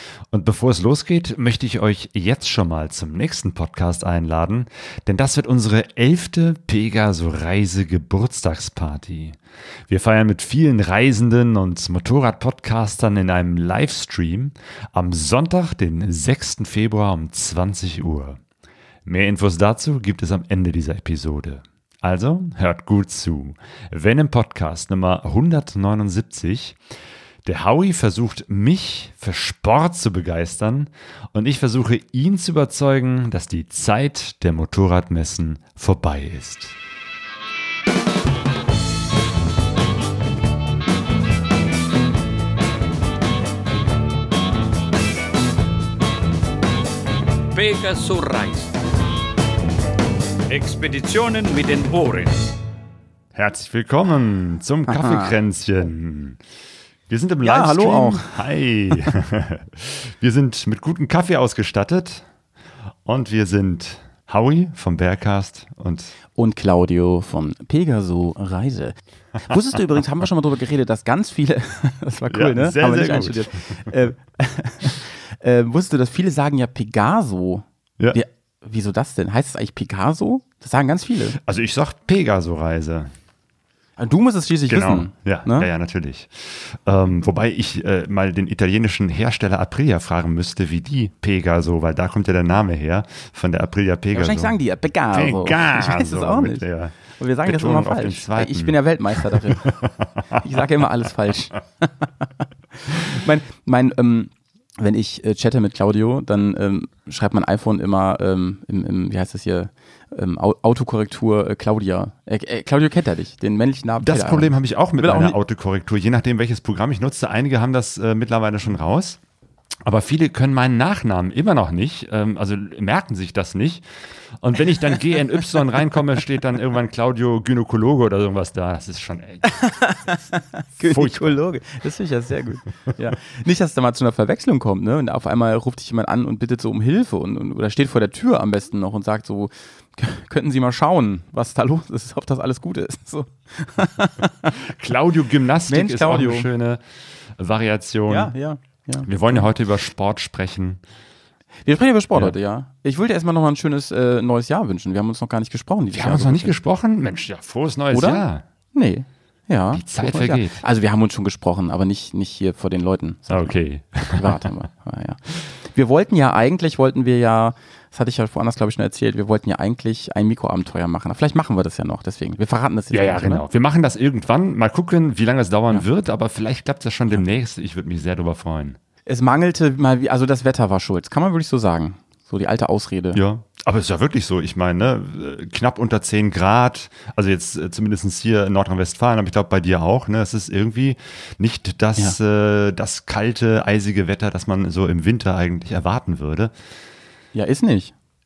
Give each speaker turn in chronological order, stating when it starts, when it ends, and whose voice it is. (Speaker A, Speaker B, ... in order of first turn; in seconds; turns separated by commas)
Speaker A: 0.3-18.4, Speaker A: 19.1-26.8, Speaker A: 27.4-36.8, Speaker B: 47.5-48.8, Speaker B: 50.5-52.4, Speaker A: 53.4-56.4, Speaker C: 54.9-55.4, Speaker A: 57.1-62.3, Speaker C: 57.4-58.4, Speaker A: 63.0-66.2, Speaker C: 66.4-81.4, Speaker A: 72.3-73.9, Speaker A: 81.4-83.1, Speaker C: 84.0-85.7, Speaker A: 84.7-94.5, Speaker C: 94.1-96.7, Speaker A: 95.1-100.4, Speaker C: 97.2-99.7, Speaker C: 100.4-102.3, Speaker C: 102.8-115.4, Speaker A: 114.0-119.2, Speaker A: 119.8-129.7, Speaker C: 129.6-144.6, Speaker A: 130.8-131.4, Speaker A: 144.6-146.8, Speaker C: 145.7-146.5, Speaker A: 147.3-148.3, Speaker C: 148.1-149.5, Speaker A: 149.1-150.8, Speaker C: 151.7-156.5, Speaker A: 155.9-158.4, Speaker C: 157.9-163.6, Speaker A: 159.7-160.6, Speaker A: 163.3-164.5, Speaker C: 164.1-173.4, Speaker A: 172.9-178.8, Speaker C: 179.1-183.2, Speaker A: 183.1-196.5, Speaker C: 197.3-197.9